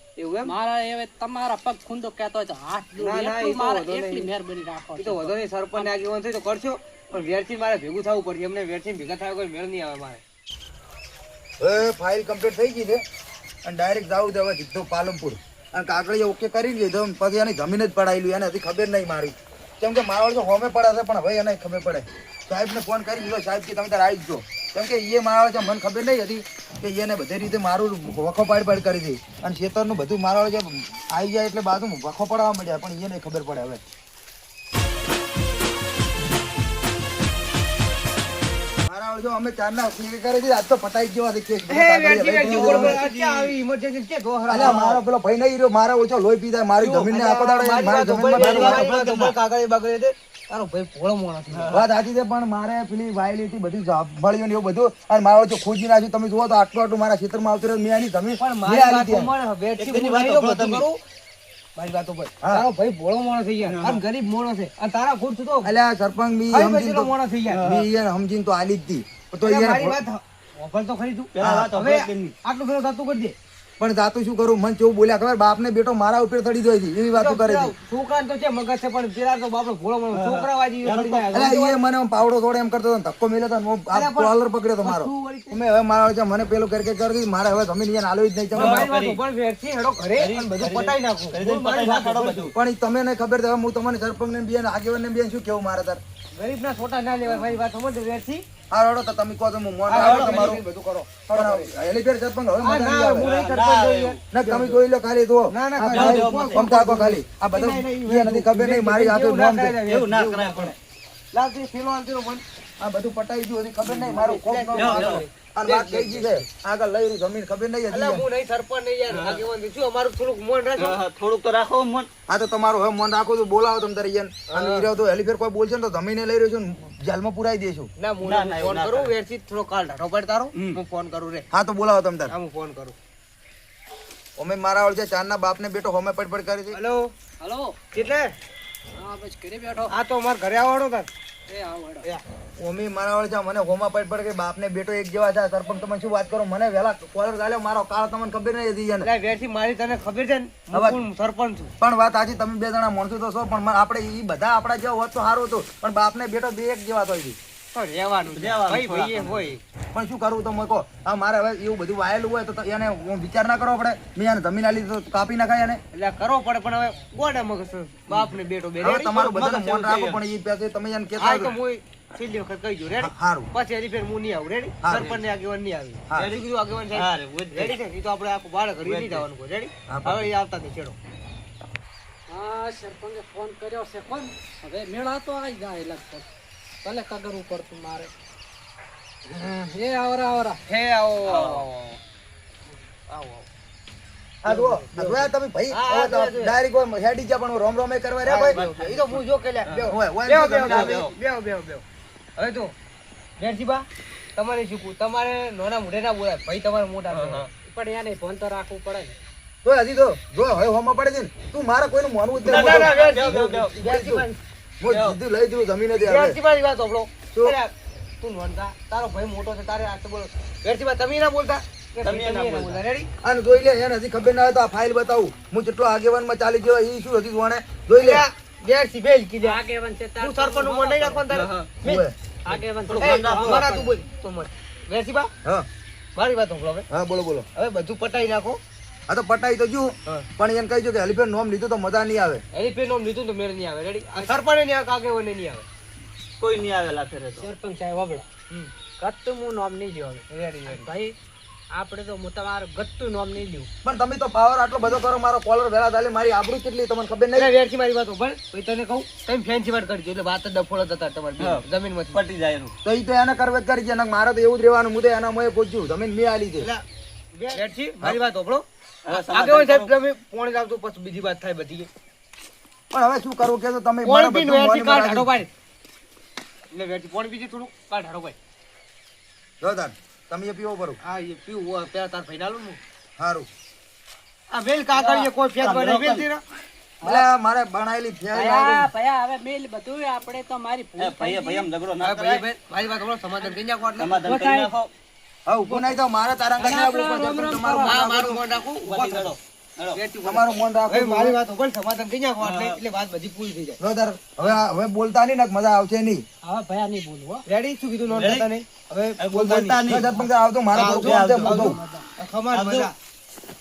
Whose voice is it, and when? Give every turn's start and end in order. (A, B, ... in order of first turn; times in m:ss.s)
0:00.2-0:00.5 A
0:00.4-0:05.9 B
0:03.0-0:04.3 A
0:05.0-0:10.2 A
0:11.6-0:13.0 C
0:13.6-0:33.8 C
0:38.9-0:43.0 C
0:41.7-0:45.0 A
0:42.3-0:43.5 D
0:44.5-0:49.3 C
0:44.6-0:45.0 D
0:46.8-0:51.8 A
0:48.3-0:49.3 D
0:51.5-0:51.8 D
0:51.7-0:59.3 C
0:58.4-1:01.0 A
0:59.8-1:00.9 D
1:01.8-1:05.7 A
1:02.4-1:02.7 C
1:03.6-1:04.0 D
1:05.6-1:10.0 C
1:06.5-1:07.6 A
1:07.5-1:07.9 D
1:09.4-1:13.4 A
1:11.4-1:12.3 D
1:11.4-1:11.8 C
1:13.8-1:17.7 C
1:17.1-1:21.8 A
1:20.1-1:21.5 D
1:21.3-1:28.9 C
1:23.9-1:25.6 A
1:28.5-1:29.2 D
1:28.5-1:32.5 A
1:30.2-1:32.5 D
1:32.5-1:36.0 C
1:36.4-1:38.4 A
1:38.7-1:40.6 C
1:39.9-1:41.7 A
1:40.0-1:40.6 D
1:41.3-1:43.3 C
1:42.6-1:44.8 A
1:43.2-1:44.2 D
1:44.3-1:49.8 C
1:45.5-1:50.8 A
1:45.9-1:46.7 D
1:49.8-1:50.8 D
1:51.3-1:52.4 A
1:52.8-1:58.2 C
1:53.9-1:56.4 A
1:54.7-1:55.2 D
1:57.9-2:01.0 A
1:59.1-1:59.4 D
2:00.8-2:02.1 D
2:02.3-2:07.9 C
2:04.5-2:04.9 A
2:08.0-2:11.5 A
2:08.2-2:09.1 D
2:11.5-2:12.3 C
2:12.3-2:12.9 A
2:14.4-2:16.8 C
2:16.7-2:17.1 A
2:17.4-2:17.8 B
2:17.9-2:18.4 A
2:18.9-2:19.9 B
2:19.9-2:21.1 A
2:21.5-2:22.1 B
2:22.6-2:29.1 C
2:29.0-2:31.7 A
2:30.7-2:31.0 C
2:31.8-2:37.4 C
2:37.7-2:39.6 A
2:38.2-2:39.5 D
2:39.9-2:45.8 C
2:45.9-2:49.2 A
2:48.8-2:51.6 C
2:49.1-2:50.2 D
2:51.2-3:01.0 A
2:53.0-2:53.5 C
2:54.8-2:55.2 C
2:56.9-2:57.8 D
2:58.8-2:59.3 D
2:59.9-3:00.3 C
3:02.3-3:06.2 B
3:06.8-3:08.1 B
3:09.3-3:10.6 B
3:10.7-3:12.0 A
3:11.2-3:11.6 D
3:13.1-3:13.5 A
3:14.4-3:19.2 C
3:14.4-3:16.6 A
3:18.2-3:21.8 A
3:19.6-3:19.9 D
3:19.9-3:21.0 C
3:20.6-3:21.1 D
3:22.4-3:22.7 A
3:23.4-3:27.5 A
3:27.1-3:27.4 D
3:27.6-3:29.2 B
3:29.6-3:34.3 C
3:32.4-3:34.4 A
3:32.5-3:33.7 D
3:34.8-3:36.4 C
3:34.8-3:35.2 D
3:36.0-3:43.1 A
3:42.0-3:42.8 D
3:43.2-3:48.2 C
3:48.0-3:49.6 A
3:49.4-3:51.2 B
3:50.2-3:55.3 A
3:51.3-3:51.7 D
3:51.8-3:52.1 C
3:52.4-3:53.8 B
3:52.9-3:53.9 D
3:56.2-3:56.9 A
3:56.9-3:57.4 C
3:57.6-3:58.6 A
3:59.1-4:02.4 C
4:02.5-4:05.6 A
4:06.4-4:07.5 D
4:07.4-4:08.3 B
4:09.0-4:11.1 B
4:10.3-4:10.9 A
4:11.7-4:13.7 B
4:13.8-4:17.5 C
4:17.3-4:22.2 A
4:21.4-4:22.7 D
4:22.8-4:26.7 C
4:26.6-4:31.9 A
4:29.0-4:29.9 D
4:32.9-4:35.3 C
4:34.0-4:35.5 A
4:36.7-4:38.4 A
4:39.6-4:41.0 C
4:41.0-4:42.8 A
4:43.2-4:43.5 C
4:44.5-4:46.4 A
4:44.9-4:46.3 D
4:47.0-4:48.9 C
4:47.0-4:47.3 B
4:48.3-4:51.7 B
4:51.0-4:52.5 D
4:52.0-4:54.3 A
4:54.0-4:54.9 D
4:54.2-4:54.7 B
4:55.4-4:58.4 C
4:56.6-4:58.0 B
4:57.8-4:59.4 A
4:58.8-5:00.0 D
4:59.9-5:03.8 A
5:00.2-5:01.4 C
5:02.4-5:02.8 D
5:03.8-5:06.2 C
5:06.4-5:07.4 B
5:07.4-5:12.9 A
5:08.1-5:08.5 D
5:09.2-5:10.1 D
5:09.8-5:11.8 C
5:10.7-5:11.8 D
5:11.4-5:12.0 B
5:12.5-5:12.9 C